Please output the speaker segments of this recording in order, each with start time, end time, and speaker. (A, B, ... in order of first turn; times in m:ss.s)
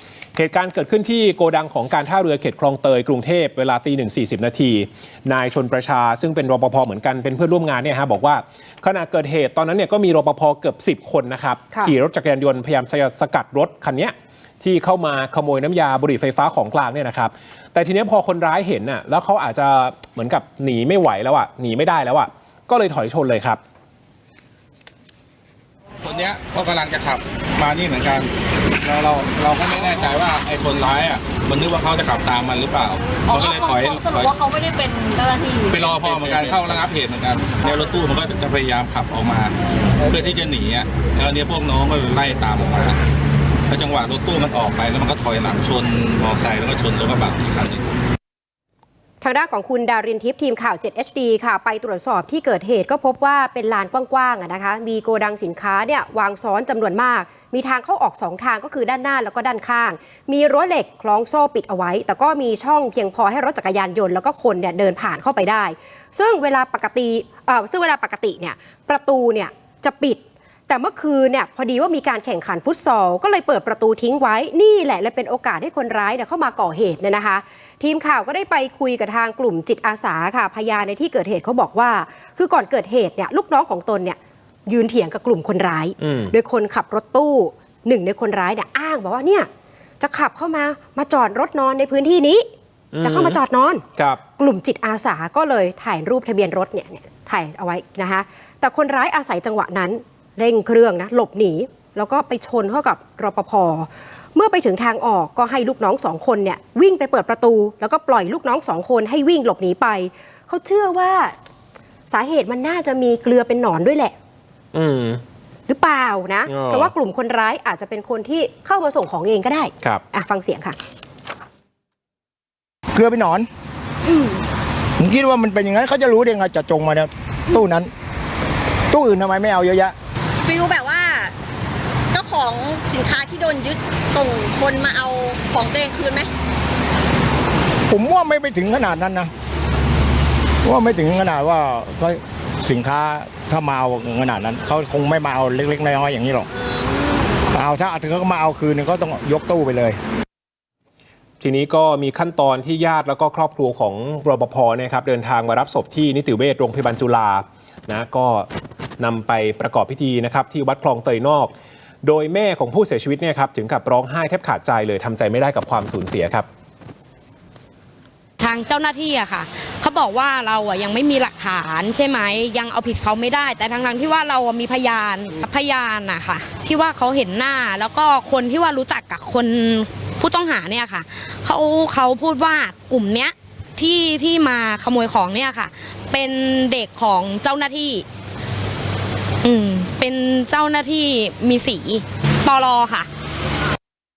0:00.4-0:23.6 A
0:26.0-0:28.3 B
0:28.8-0:34.3 B
0:33.3-0:36.6 C
0:35.7-0:43.0 B
0:43.7-0:47.9 B
0:49.2-1:29.5 D
1:26.0-1:26.3 A
1:30.0-1:32.4 D
1:32.9-1:33.4 A
1:33.0-1:33.8 D
1:34.0-1:34.2 A
1:34.4-1:51.3 D
1:52.1-1:54.1 D
1:54.7-1:55.2 A
1:55.7-2:00.8 D
1:56.5-1:56.9 A
2:02.9-2:03.5 E
2:05.0-2:07.9 E
2:08.9-2:09.9 E
2:10.4-2:11.3 C
2:12.1-2:16.3 C
2:17.9-2:19.3 E
2:20.6-2:26.5 E
2:27.5-2:30.0 E
2:31.4-2:38.5 A
2:39.0-2:41.5 A
2:42.0-2:46.4 A
2:48.4-3:08.0 F
3:09.4-3:13.1 F